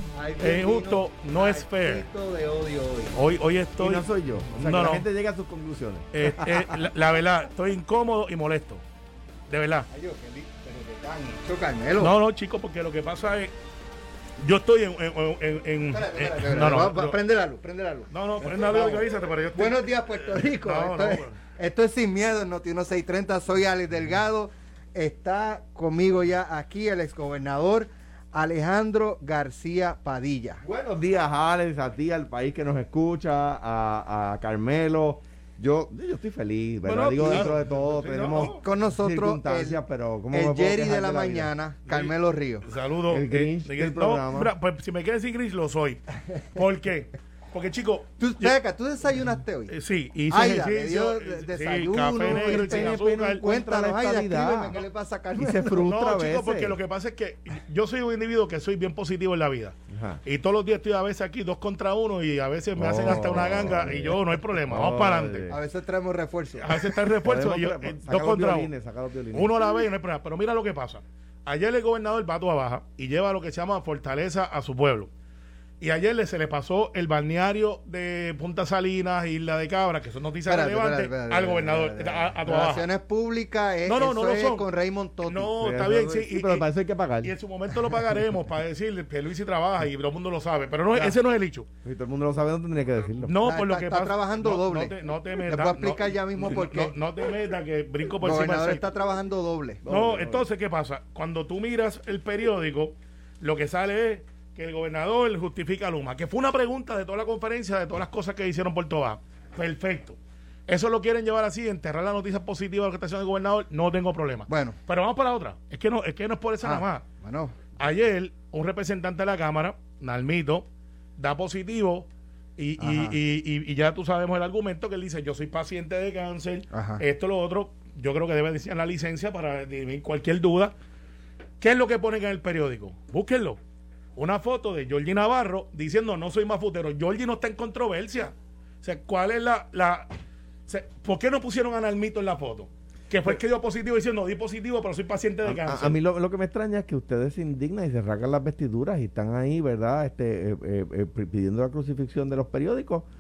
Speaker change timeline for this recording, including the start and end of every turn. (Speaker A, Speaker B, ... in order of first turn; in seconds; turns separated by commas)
Speaker A: 0.1-3.2, Speaker B: 0.4-2.0, Speaker B: 3.1-5.0, Speaker C: 3.8-6.1, Speaker B: 6.1-8.8, Speaker B: 9.5-9.9, Speaker A: 9.9-12.1, Speaker B: 12.0-13.5, Speaker B: 14.4-17.2, Speaker A: 15.9-30.6, Speaker B: 18.1-21.4, Speaker C: 30.6-41.5, Speaker B: 36.8-38.6, Speaker A: 38.4-39.8, Speaker A: 40.3-42.6, Speaker B: 41.9-42.1, Speaker B: 42.6-48.5, Speaker C: 43.1-44.5, Speaker A: 48.2-49.7, Speaker B: 49.7-53.4, Speaker A: 50.3-55.8, Speaker C: 52.2-54.8, Speaker C: 55.4-56.8, Speaker B: 55.8-65.5, Speaker C: 59.9-60.2, Speaker C: 62.8-65.6, Speaker A: 65.5-66.8, Speaker B: 66.6-68.7, Speaker C: 67.2-69.6, Speaker B: 69.3-75.1, Speaker B: 75.8-82.9, Speaker A: 80.5-85.5, Speaker B: 83.8-84.7, Speaker B: 85.2-86.7, Speaker C: 85.6-87.3, Speaker B: 87.2-91.7, Speaker C: 91.8-93.3, Speaker B: 93.2-98.8, Speaker A: 93.4-94.9, Speaker A: 95.4-96.9, Speaker A: 98.2-99.8, Speaker C: 99.8-100.4, Speaker B: 99.8-117.0, Speaker A: 114.5-114.8, Speaker A: 116.6-117.5, Speaker B: 117.8-120.7, Speaker B: 121.2-130.7, Speaker A: 122.8-123.2, Speaker A: 126.7-127.0, Speaker B: 131.6-133.6, Speaker B: 134.2-140.1, Speaker B: 140.7-146.0, Speaker C: 145.4-153.1